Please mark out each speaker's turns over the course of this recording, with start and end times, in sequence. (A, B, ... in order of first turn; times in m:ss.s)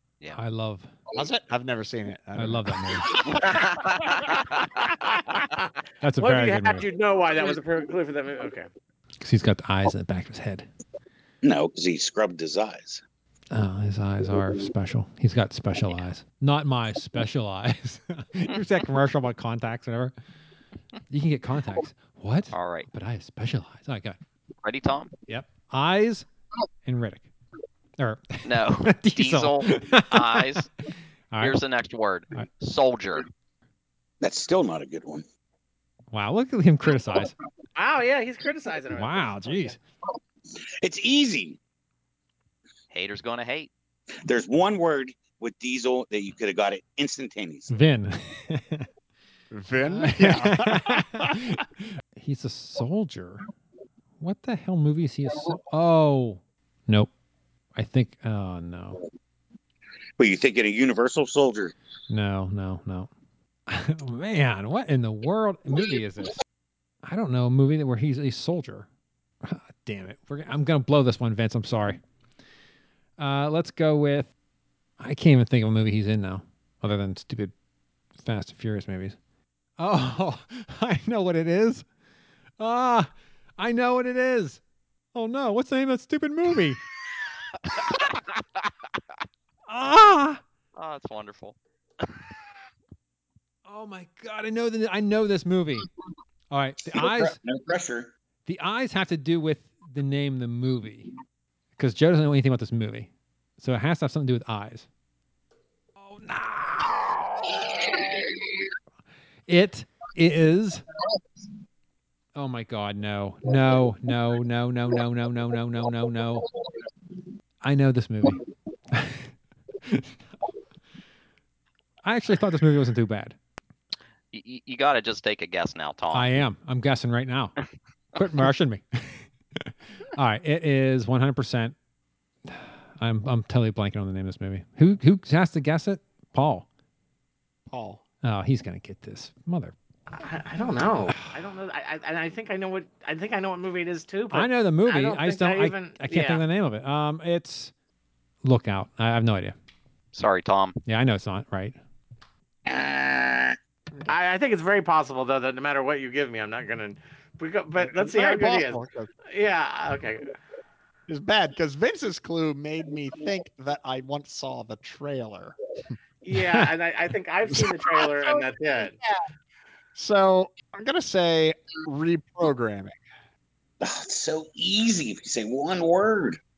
0:00.3-0:00.9 A
0:01.1-0:04.0 B
0:02.4-0:03.2 A
0:05.4-0:08.7 C
0:06.0-0:06.8 A
0:09.2-0:10.7 A
0:11.4-0:13.0 D
0:13.5-0:20.1 A
0:21.1-0:24.2 A
0:22.5-0:22.8 E
0:24.6-0:25.1 E
0:25.3-0:26.2 A
0:26.8-0:27.3 A
0:28.0-0:30.5 A
0:28.4-0:30.7 E
0:31.3-0:31.6 A
0:31.4-0:33.2 E
0:34.2-0:35.2 D
0:36.1-0:37.3 A
0:37.8-0:39.7 C
0:38.9-0:39.8 A
0:40.8-0:41.6 D
0:42.9-0:43.7 E
0:44.2-0:47.8 D
0:47.7-0:48.9 A
0:49.5-0:51.4 B
0:49.8-0:53.4 A
0:54.2-0:57.1 A
0:57.7-0:59.0 A
1:00.2-1:01.7 D
1:02.1-1:03.1 A
1:03.7-1:06.4 A
1:07.0-1:08.9 A
1:09.4-1:12.0 A
1:13.2-1:14.3 A
1:15.0-1:17.5 A
1:18.2-1:19.2 A
1:19.8-1:21.8 A
1:22.6-1:24.6 A
1:25.1-1:26.8 A
1:29.7-1:30.4 A
1:30.8-1:32.0 E
1:33.6-1:35.9 A
1:36.5-1:37.4 A
1:36.9-1:38.1 D
1:38.4-1:41.1 A
1:41.8-1:44.9 A
1:46.0-1:47.5 A
1:49.5-1:50.8 A
1:52.3-1:56.5 A
1:57.6-1:59.3 A
2:02.0-2:03.4 A
2:04.3-2:06.3 E
2:06.1-2:07.6 A
2:08.2-2:11.7 A
2:12.4-2:16.6 A
2:17.7-2:18.0 B
2:18.2-2:19.7 A
2:20.1-2:26.4 C
2:24.3-2:27.7 A
2:28.4-2:29.5 A
2:30.1-2:30.8 E
2:30.8-2:31.8 A
2:32.6-2:33.6 D
2:34.1-2:40.3 C
2:37.8-2:39.1 B
2:41.1-2:45.9 B
2:46.2-2:49.0 C
2:49.9-2:53.0 B
2:53.8-2:56.4 D